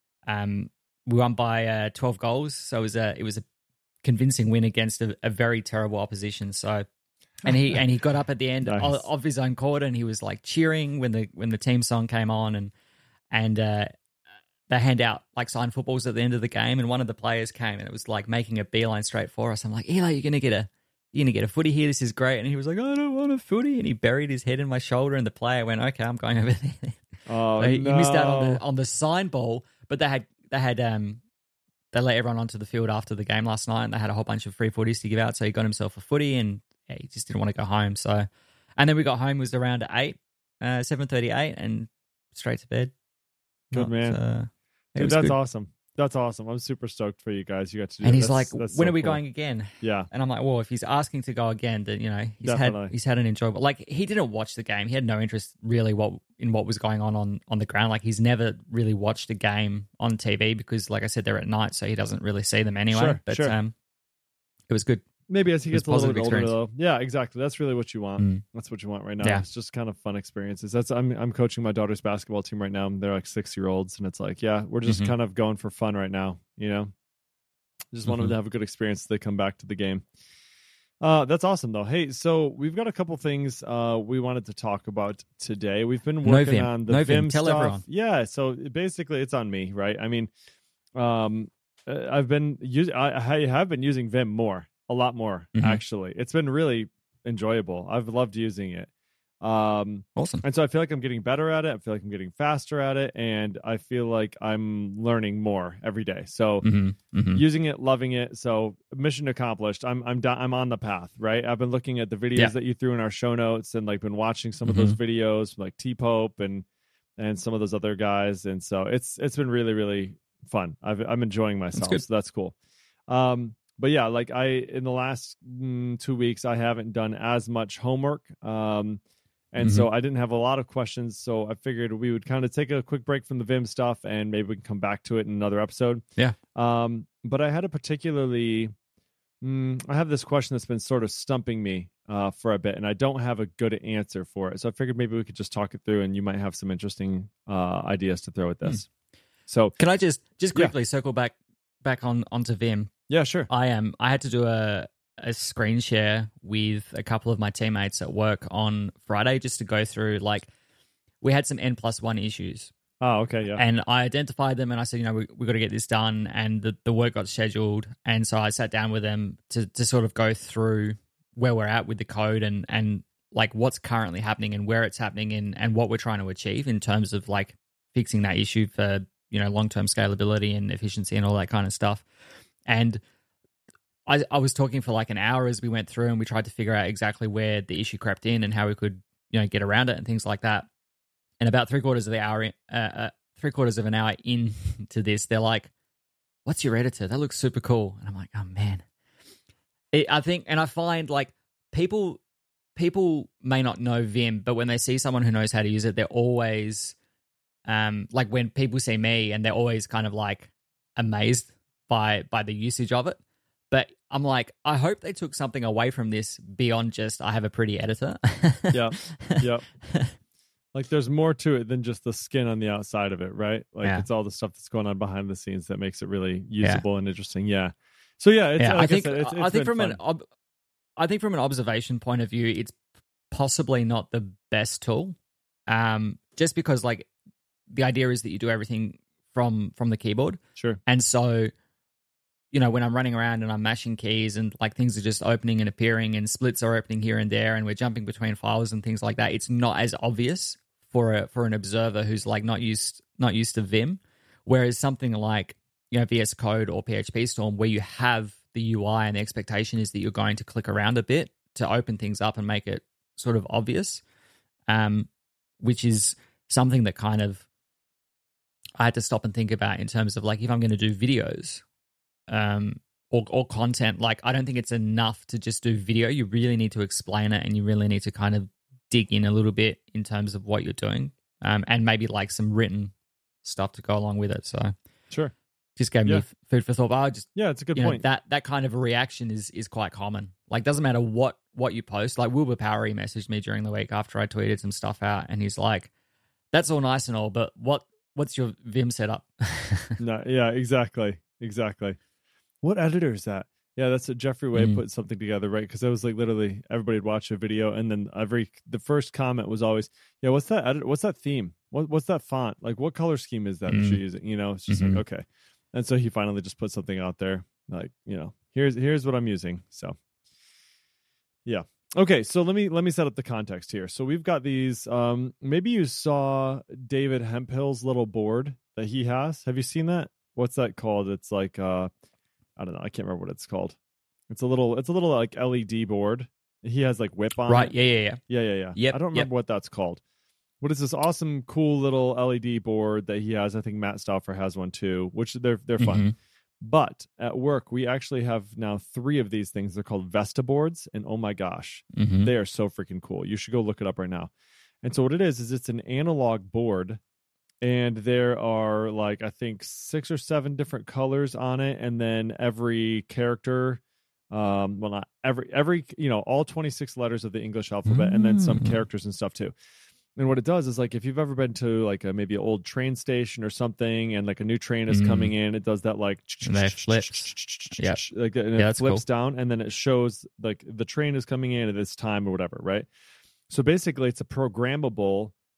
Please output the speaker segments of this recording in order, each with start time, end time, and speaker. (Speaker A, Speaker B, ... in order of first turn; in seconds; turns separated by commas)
Speaker A: 0.3-3.4, Speaker A: 4.0-6.8, Speaker A: 7.4-12.7, Speaker B: 8.6-9.0, Speaker A: 13.3-13.9, Speaker A: 14.7-27.1, Speaker B: 27.2-28.6, Speaker A: 27.6-31.2, Speaker A: 31.9-42.9, Speaker B: 43.7-44.2, Speaker A: 43.7-45.4, Speaker B: 44.9-49.2, Speaker A: 48.0-63.7, Speaker B: 49.8-50.1, Speaker B: 52.4-52.9, Speaker B: 62.9-63.5, Speaker A: 64.7-65.0, Speaker B: 65.3-76.9, Speaker A: 65.7-66.5, Speaker A: 68.2-68.4, Speaker A: 74.8-75.1, Speaker B: 77.9-80.0, Speaker A: 78.0-78.3, Speaker B: 81.0-90.3, Speaker A: 86.2-87.8, Speaker B: 91.0-98.9, Speaker A: 95.5-95.8, Speaker B: 99.4-106.7, Speaker A: 100.2-100.4, Speaker A: 106.6-107.4, Speaker B: 107.3-116.7, Speaker A: 114.6-115.0, Speaker B: 117.2-122.5, Speaker A: 121.7-122.0, Speaker B: 123.1-129.0, Speaker B: 129.5-136.0, Speaker A: 129.6-129.9, Speaker B: 136.5-138.7, Speaker B: 139.4-148.8, Speaker B: 149.5-149.8, Speaker A: 149.8-152.9, Speaker B: 153.1-153.5, Speaker A: 153.5-160.5, Speaker A: 161.2-162.7, Speaker B: 163.0-163.6, Speaker A: 163.6-182.0, Speaker A: 182.7-183.0, Speaker A: 184.1-190.7, Speaker A: 191.4-195.7, Speaker A: 196.4-198.8, Speaker A: 199.9-202.2, Speaker A: 202.8-206.9, Speaker A: 207.7-213.2, Speaker A: 213.7-220.1, Speaker B: 218.7-219.7, Speaker B: 220.7-230.0, Speaker A: 228.6-230.2, Speaker A: 231.0-232.8, Speaker A: 233.3-235.2, Speaker A: 235.7-237.1, Speaker A: 237.7-241.5, Speaker A: 242.5-264.0, Speaker A: 264.7-265.1, Speaker A: 265.6-267.4, Speaker A: 268.8-271.6, Speaker A: 272.3-284.7, Speaker A: 285.8-295.9, Speaker B: 287.3-288.0, Speaker A: 296.5-300.0, Speaker B: 300.0-302.0, Speaker B: 302.6-319.9, Speaker A: 304.5-304.8, Speaker A: 313.7-314.0, Speaker A: 314.7-315.0, Speaker B: 321.4-331.9, Speaker B: 332.6-333.8, Speaker B: 334.3-337.7, Speaker A: 337.5-338.2, Speaker B: 338.3-340.0, Speaker A: 338.7-339.3, Speaker B: 340.6-346.0, Speaker A: 345.8-346.1, Speaker B: 346.6-354.3, Speaker A: 351.9-352.3, Speaker B: 354.8-357.0, Speaker B: 357.6-369.5, Speaker A: 367.9-368.8, Speaker B: 370.1-382.9, Speaker A: 374.9-375.3, Speaker A: 376.4-378.0, Speaker A: 378.6-379.0, Speaker B: 383.5-385.3